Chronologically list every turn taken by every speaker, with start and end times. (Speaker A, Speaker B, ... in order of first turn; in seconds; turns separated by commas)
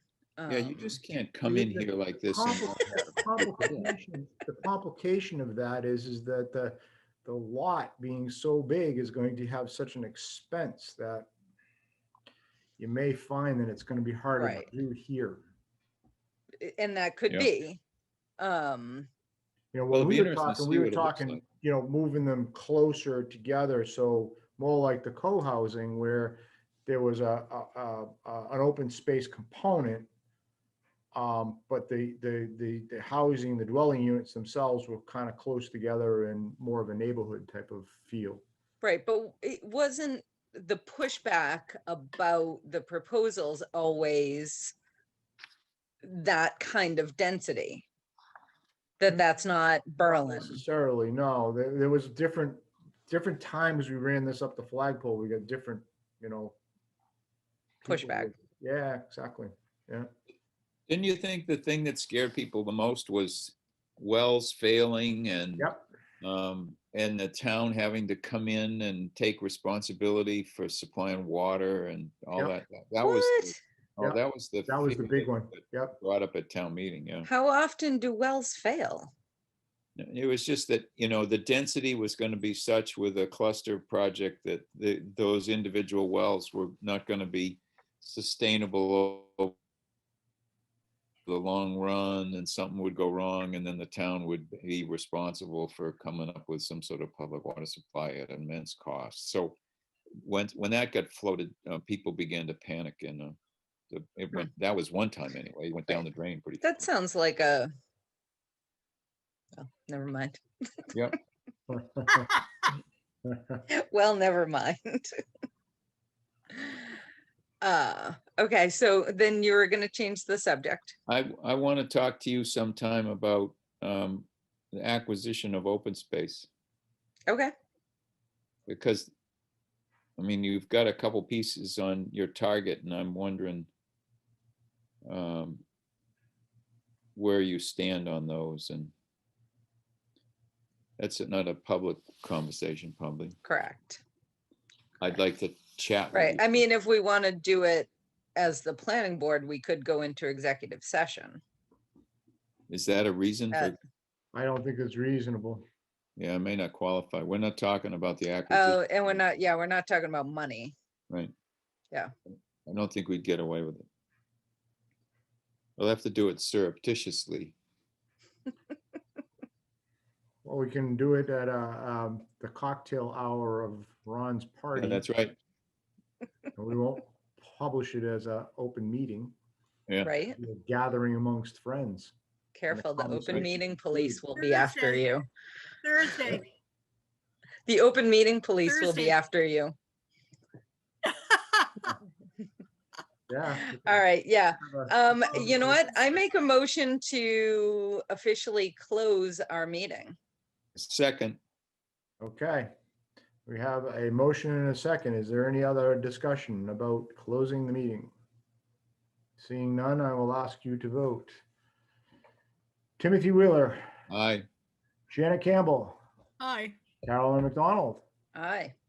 Speaker A: 0.4-1.0, Speaker B: 0.5-3.9, Speaker C: 1.4-11.3, Speaker C: 12.8-15.4, Speaker A: 14.4-14.7, Speaker A: 16.6-17.8, Speaker A: 18.4-19.1, Speaker C: 19.7-30.1, Speaker B: 19.9-21.4, Speaker C: 31.1-38.4, Speaker A: 38.8-44.7, Speaker A: 46.0-47.9, Speaker A: 49.0-50.6, Speaker C: 50.0-56.6, Speaker C: 57.8-60.1, Speaker A: 57.9-58.3, Speaker B: 60.9-77.3, Speaker C: 65.6-65.8, Speaker A: 73.0-73.5, Speaker C: 74.0-76.0, Speaker A: 77.2-79.1, Speaker B: 80.0-89.5, Speaker B: 91.3-99.6, Speaker B: 100.2-103.3, Speaker B: 103.9-106.8, Speaker A: 106.6-107.7, Speaker A: 109.6-111.0, Speaker C: 111.7-112.3, Speaker C: 113.2-113.6, Speaker A: 113.7-115.2, Speaker A: 116.5-116.8, Speaker A: 117.6-120.9, Speaker B: 121.1-126.5, Speaker B: 128.7-129.1, Speaker B: 130.2-133.7, Speaker B: 135.0-135.6, Speaker B: 137.2-138.9, Speaker B: 141.0-143.4, Speaker A: 143.4-144.0, Speaker B: 145.0-146.6, Speaker A: 146.1-151.4, Speaker B: 152.7-153.8, Speaker C: 154.3-155.6, Speaker B: 156.2-159.2, Speaker A: 158.5-160.7, Speaker B: 162.7-163.9, Speaker B: 165.8-167.5, Speaker C: 170.4-175.1, Speaker B: 174.8-175.3, Speaker C: 176.6-179.3, Speaker A: 180.0-180.4, Speaker C: 180.3-182.1, Speaker A: 182.5-185.2, Speaker C: 182.7-184.2, Speaker D: 184.3-185.1, Speaker D: 185.8-186.5, Speaker A: 187.7-189.7, Speaker D: 188.6-189.2, Speaker C: 193.3-194.0, Speaker A: 193.7-200.2, Speaker C: 194.6-195.8, Speaker B: 200.8-201.4, Speaker C: 202.2-202.7, Speaker C: 203.4-208.1, Speaker C: 209.4-211.4, Speaker C: 213.0-213.9, Speaker B: 214.1-214.4, Speaker C: 215.1-216.0, Speaker D: 216.4-216.7, Speaker C: 217.0-218.0, Speaker A: 218.3-218.7